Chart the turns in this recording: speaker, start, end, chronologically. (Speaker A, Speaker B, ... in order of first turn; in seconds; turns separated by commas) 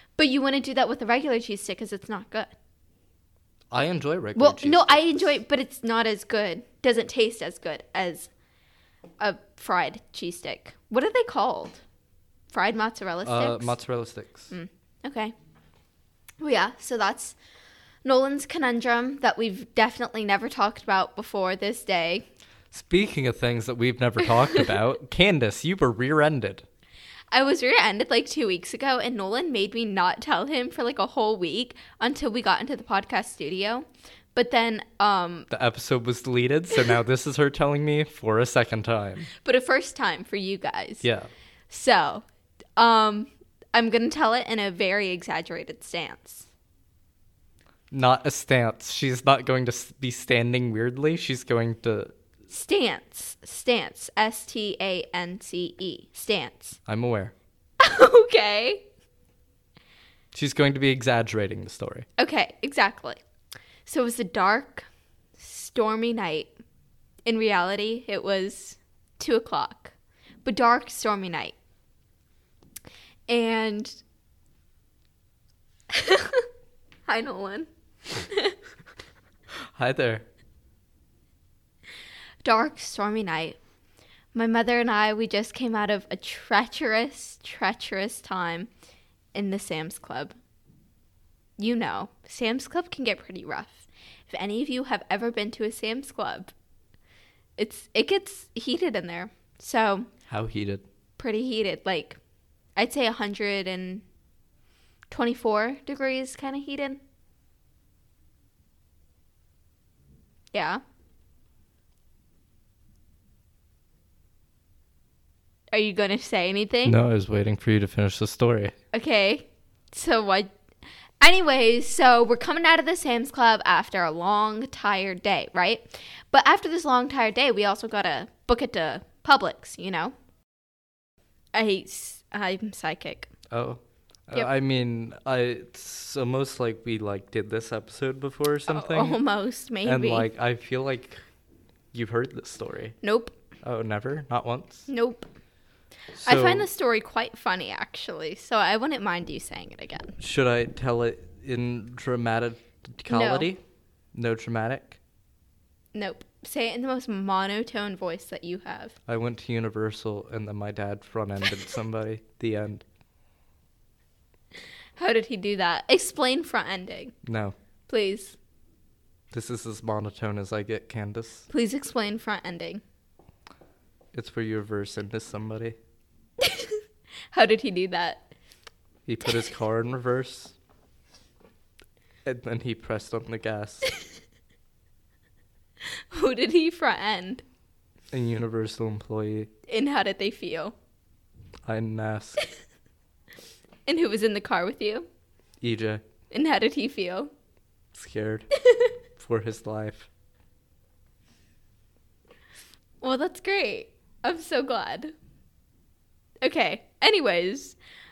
Speaker A: 0.2-2.5, Speaker B: 3.7-5.4, Speaker A: 4.3-8.3, Speaker A: 9.2-11.8, Speaker A: 12.5-13.8, Speaker B: 13.2-14.5, Speaker A: 14.5-15.3, Speaker A: 16.4-17.4, Speaker A: 18.0-22.2, Speaker B: 22.7-26.6, Speaker A: 27.3-35.5, Speaker B: 35.5-39.3, Speaker A: 39.4-41.0, Speaker B: 41.0-41.3, Speaker A: 41.7-42.2, Speaker A: 42.8-46.5, Speaker B: 47.9-52.1, Speaker A: 52.5-56.8, Speaker B: 56.9-57.3, Speaker A: 57.8-58.8, Speaker B: 60.3-62.0, Speaker A: 62.2-63.2, Speaker A: 63.9-66.5, Speaker A: 67.2-71.5, Speaker A: 73.3-74.0, Speaker A: 75.9-76.5, Speaker A: 77.0-77.7, Speaker A: 78.3-78.5, Speaker B: 79.7-80.2, Speaker A: 82.4-83.6, Speaker A: 84.3-88.7, Speaker A: 89.3-90.3, Speaker A: 91.6-96.5, Speaker A: 97.6-100.1, Speaker B: 100.3-100.8, Speaker A: 101.2-102.2, Speaker A: 102.8-104.0, Speaker A: 105.1-107.0, Speaker A: 110.5-110.8, Speaker A: 115.7-117.0, Speaker B: 116.8-118.7, Speaker A: 118.9-120.5, Speaker A: 121.2-130.1, Speaker A: 131.5-133.3, Speaker B: 133.5-139.2, Speaker A: 138.7-140.3, Speaker B: 139.8-141.2, Speaker B: 141.9-143.0, Speaker A: 143.0-143.3, Speaker B: 143.6-144.9, Speaker A: 144.9-145.3, Speaker B: 146.2-146.7, Speaker A: 146.2-150.1, Speaker B: 150.2-153.6, Speaker A: 153.1-153.5, Speaker B: 154.1-155.0, Speaker A: 155.9-158.9, Speaker B: 159.1-162.8, Speaker A: 165.0-167.1, Speaker B: 167.2-167.5, Speaker A: 167.9-168.4, Speaker B: 169.3-171.5, Speaker A: 171.5-172.8, Speaker B: 174.1-175.8, Speaker A: 176.4-176.8, Speaker A: 177.3-178.3, Speaker B: 179.1-180.5, Speaker B: 182.2-183.9, Speaker A: 186.1-187.4, Speaker B: 188.1-189.5, Speaker A: 189.7-190.7, Speaker B: 191.7-192.4, Speaker A: 193.9-195.1, Speaker B: 195.6-196.0, Speaker A: 196.3-197.3, Speaker B: 197.9-198.5, Speaker B: 199.2-200.1, Speaker A: 203.0-205.1, Speaker A: 206.4-207.8